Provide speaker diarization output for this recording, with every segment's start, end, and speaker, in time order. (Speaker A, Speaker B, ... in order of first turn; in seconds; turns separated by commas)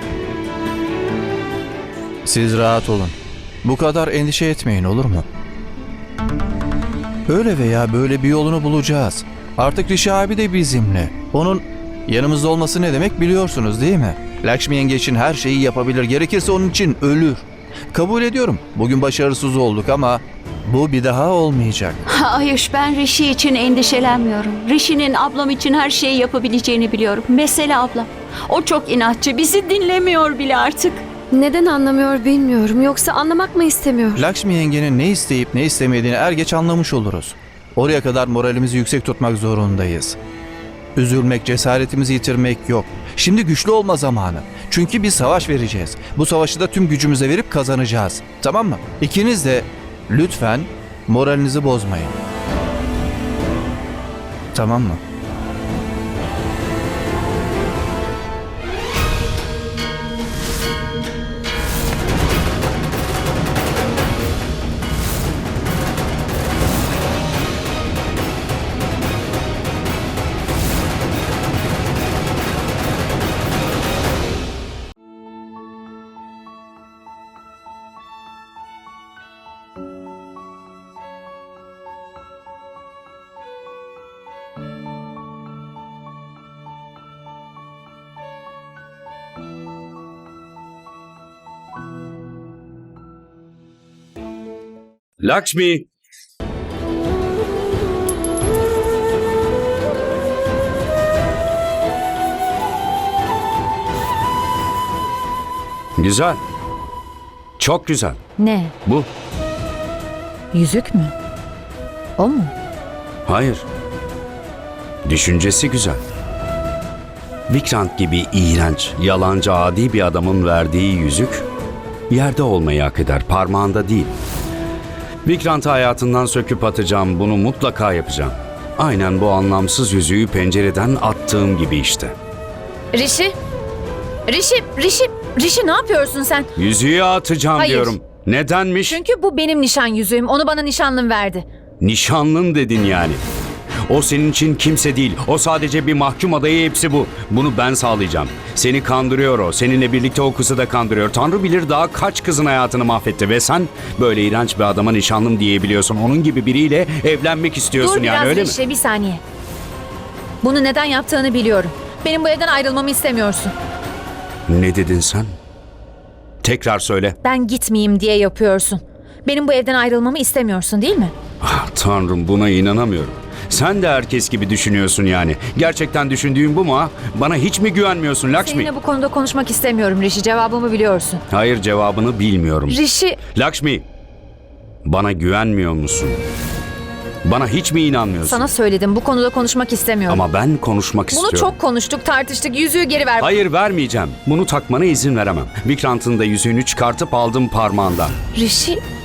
Speaker A: 2.2-5.2, Speaker A: 7.3-22.0, Speaker B: 22.1-31.2, Speaker C: 31.2-34.2, Speaker A: 34.1-40.2, Speaker A: 41.0-52.2, Speaker A: 54.5-55.0, Speaker D: 95.2-95.9, Speaker D: 106.0-106.4, Speaker D: 107.6-108.2, Speaker E: 108.4-108.7, Speaker E: 110.5-111.1, Speaker E: 112.2-112.5, Speaker D: 113.3-113.7, Speaker D: 115.0-116.0, Speaker D: 117.5-121.5, Speaker D: 122.1-124.2, Speaker D: 125.2-132.2, Speaker E: 132.9-133.4, Speaker E: 134.3-136.5, Speaker D: 136.6-139.0, Speaker E: 137.6-138.0, Speaker E: 138.8-141.4, Speaker D: 141.8-143.2, Speaker D: 143.9-158.6, Speaker E: 157.8-159.2, Speaker E: 160.4-163.5, Speaker D: 164.5-165.3, Speaker D: 166.4-167.2, Speaker E: 167.2-171.1, Speaker D: 171.4-178.7, Speaker E: 178.4-181.2, Speaker D: 181.3-182.8, Speaker E: 182.7-183.2, Speaker D: 183.3-183.9, Speaker D: 184.8-186.2, Speaker D: 187.2-188.5, Speaker E: 188.2-190.2, Speaker D: 190.1-191.5, Speaker E: 191.1-193.3, Speaker D: 193.2-198.2, Speaker E: 198.3-198.8